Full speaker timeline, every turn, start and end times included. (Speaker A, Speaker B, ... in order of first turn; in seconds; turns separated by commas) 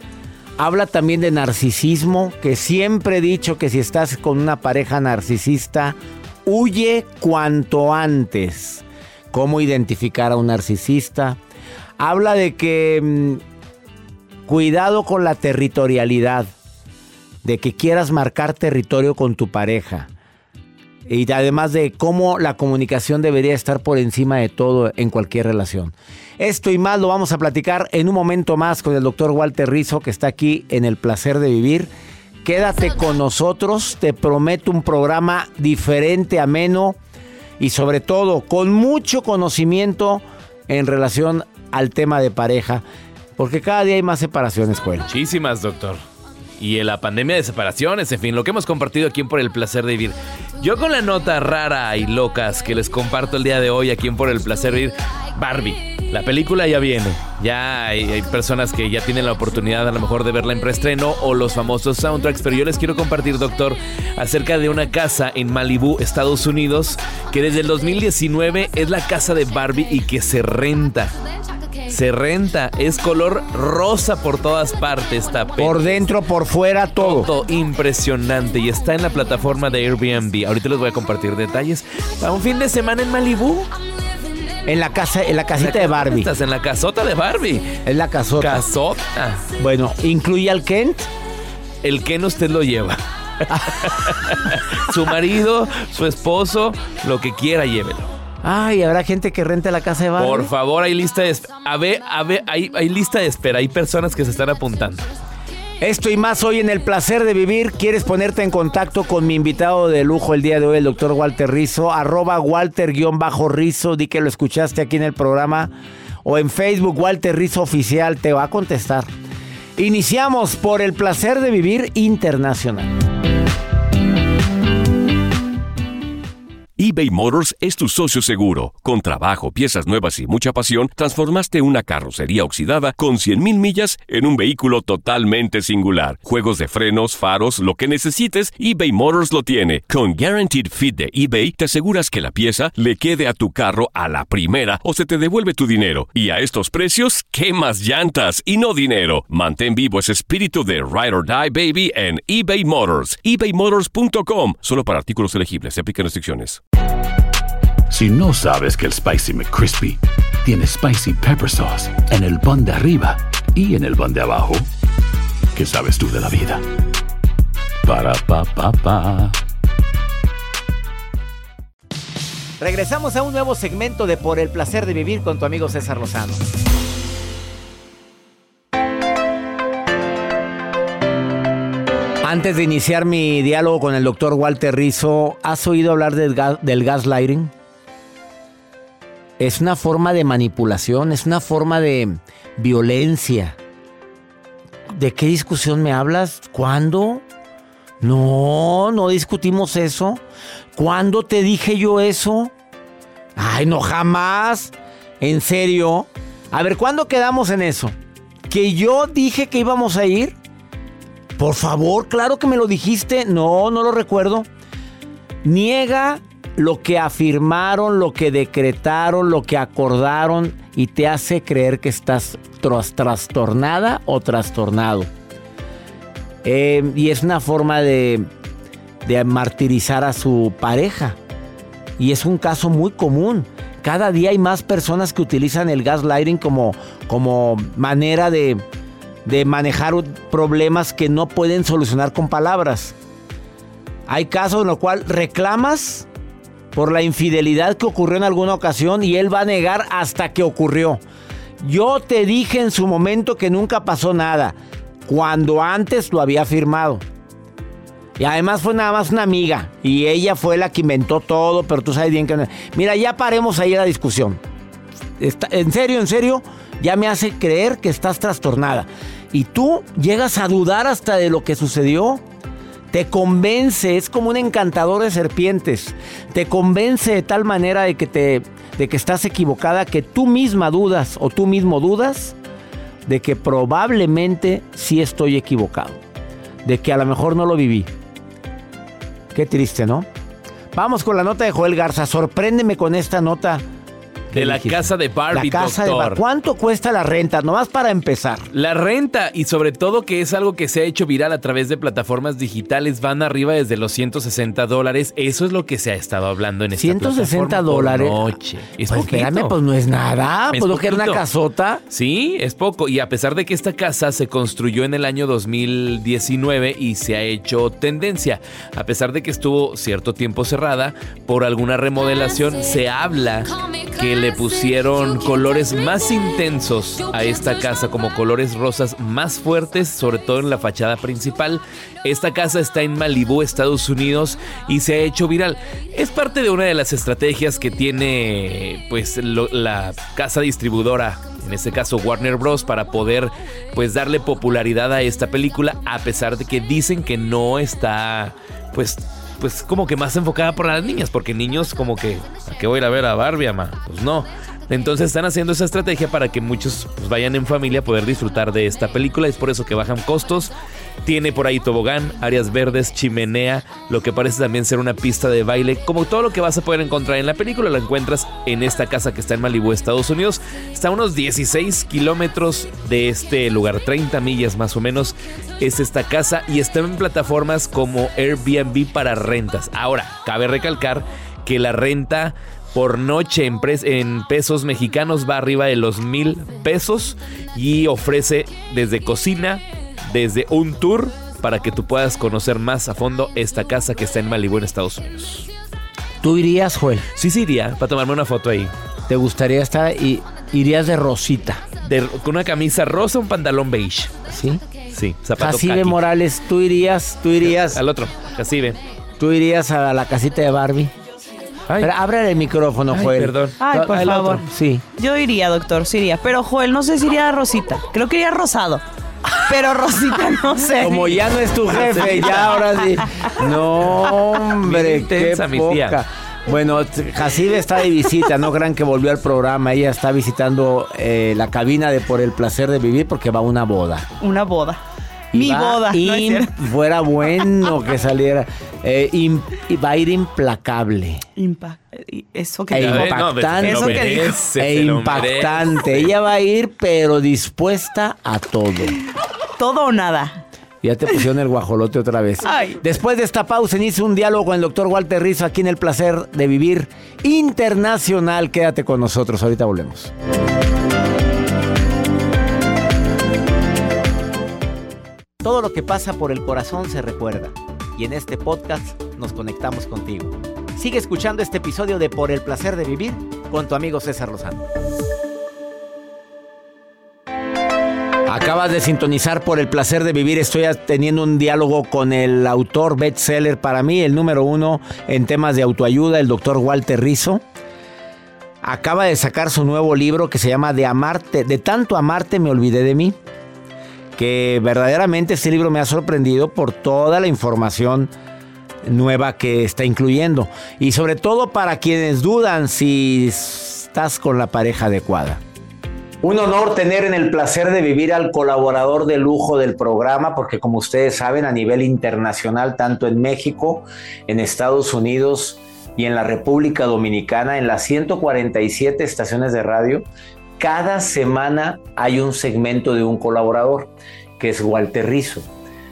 Speaker A: 0.6-11.4, Speaker A: 12.0-13.4, Speaker A: 14.5-16.5, Speaker A: 17.4-20.1, Speaker A: 21.1-31.9, Speaker A: 32.5-37.0, Speaker A: 37.6-42.8, Speaker A: 43.4-45.1, Speaker B: 45.1-46.0, Speaker B: 46.6-71.2, Speaker B: 71.9-75.9, Speaker A: 75.6-77.3, Speaker B: 77.0-83.7, Speaker A: 84.7-86.3, Speaker B: 85.6-87.8, Speaker A: 87.8-88.6, Speaker B: 88.4-89.5, Speaker A: 89.6-91.1, Speaker B: 91.8-98.1, Speaker A: 98.4-100.5, Speaker B: 100.2-105.1, Speaker A: 105.8-119.1, Speaker A: 119.8-123.0, Speaker C: 126.8-156.6, Speaker D: 157.9-164.7, Speaker D: 165.5-166.6, Speaker D: 167.8-169.4, Speaker A: 172.6-176.5, Speaker A: 182.2-187.5, Speaker A: 189.4-193.6, Speaker A: 194.9-197.2, Speaker A: 198.0-200.2, Speaker A: 200.8-202.5, Speaker A: 203.4-208.0, Speaker A: 208.5-210.4, Speaker A: 211.4-214.5, Speaker A: 215.4-225.1, Speaker A: 226.4-228.3, Speaker A: 229.1-231.2, Speaker A: 232.0-238.6, Speaker A: 239.2-243.0, Speaker A: 244.1-246.1, Speaker A: 246.8-251.0, Speaker A: 251.6-257.0, Speaker A: 258.2-264.4, Speaker A: 265.2-272.2, Speaker A: 272.9-282.4, Speaker A: 283.1-286.0, Speaker A: 286.6-287.9, Speaker A: 289.3-290.1, Speaker A: 290.7-293.6, Speaker A: 294.3-298.5, Speaker B: 294.3-296.2, Speaker B: 298.5-309.5, Speaker A: 306.7-308.3, Speaker A: 308.9-311.8, Speaker B: 310.5-311.2, Speaker B: 311.9-360.5, Speaker B: 361.0-395.5, Speaker A: 396.2-397.1, Speaker B: 397.1-398.7, Speaker A: 399.1-401.6, Speaker B: 401.8-404.1, Speaker A: 404.3-404.6, Speaker B: 404.9-406.0, Speaker A: 405.4-407.8, Speaker B: 407.4-408.8, Speaker A: 409.2-410.9, Speaker B: 411.7-411.9, Speaker A: 411.8-413.4, Speaker B: 412.9-414.5, Speaker E: 413.6-418.8, Speaker A: 414.5-414.8, Speaker E: 419.5-421.1, Speaker A: 420.8-434.1, Speaker B: 421.7-423.0, Speaker B: 423.8-424.1, Speaker B: 424.6-426.0, Speaker E: 434.2-434.8, Speaker E: 435.3-436.5, Speaker A: 435.3-441.2, Speaker E: 441.4-444.5, Speaker A: 442.7-449.0, Speaker B: 442.8-446.1, Speaker E: 449.6-450.4, Speaker A: 450.8-460.1, Speaker E: 452.4-452.8, Speaker A: 465.4-474.7, Speaker A: 478.3-487.4, Speaker A: 488.6-493.2, Speaker A: 494.2-498.1, Speaker A: 498.8-505.4, Speaker A: 506.2-520.1, Speaker A: 520.6-525.5